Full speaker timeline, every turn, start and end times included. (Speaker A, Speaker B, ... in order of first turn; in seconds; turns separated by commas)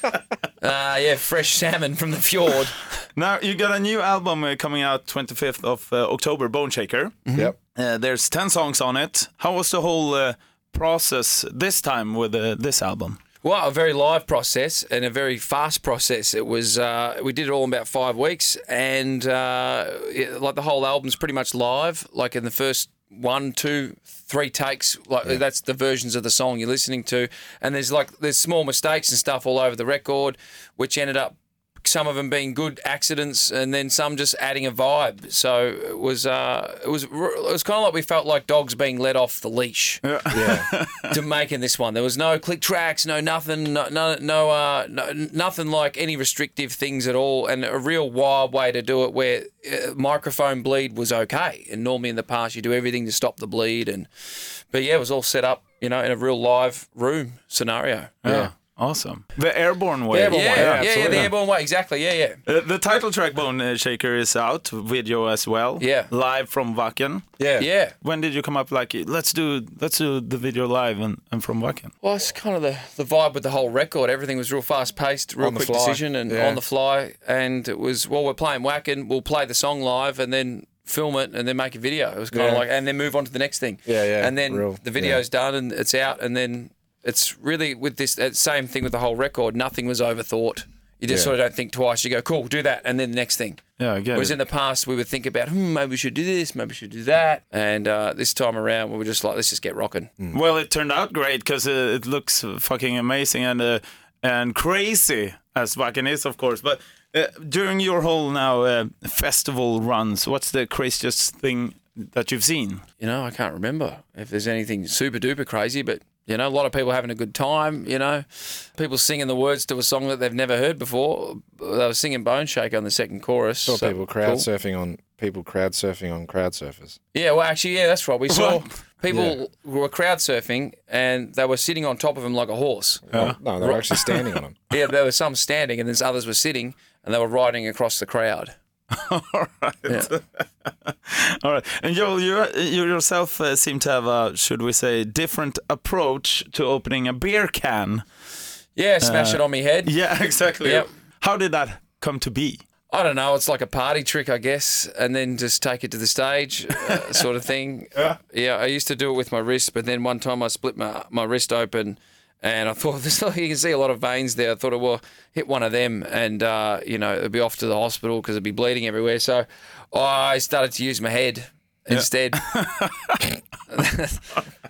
Speaker A: 0.6-2.9, Speaker B: 3.1-7.2, Speaker A: 7.3-7.5, Speaker B: 7.7-13.2, Speaker A: 13.4-40.0, Speaker B: 40.0-41.2, Speaker C: 40.3-40.7, Speaker A: 41.1-58.2, Speaker B: 58.2-61.3, Speaker C: 58.2-58.5, Speaker A: 60.1-62.4, Speaker C: 60.3-61.3, Speaker B: 62.5-67.3, Speaker A: 65.8-66.1, Speaker C: 67.4-67.7, Speaker A: 67.6-68.0, Speaker B: 68.0-71.9, Speaker A: 72.0-93.6, Speaker C: 75.4-76.6, Speaker C: 82.3-82.6, Speaker C: 83.9-85.2, Speaker C: 91.0-91.3, Speaker B: 93.8-94.4, Speaker A: 94.1-100.1, Speaker B: 100.3-112.8, Speaker A: 113.0-124.5, Speaker C: 123.6-127.0, Speaker A: 127.1-133.0, Speaker B: 128.3-128.6, Speaker C: 129.1-129.4, Speaker C: 133.1-134.6, Speaker B: 133.1-134.3, Speaker A: 134.7-138.5, Speaker B: 138.9-148.0, Speaker A: 148.7-149.9, Speaker B: 149.0-152.6, Speaker A: 150.6-150.9, Speaker A: 152.9-172.4, Speaker B: 171.9-173.3, Speaker A: 173.7-174.3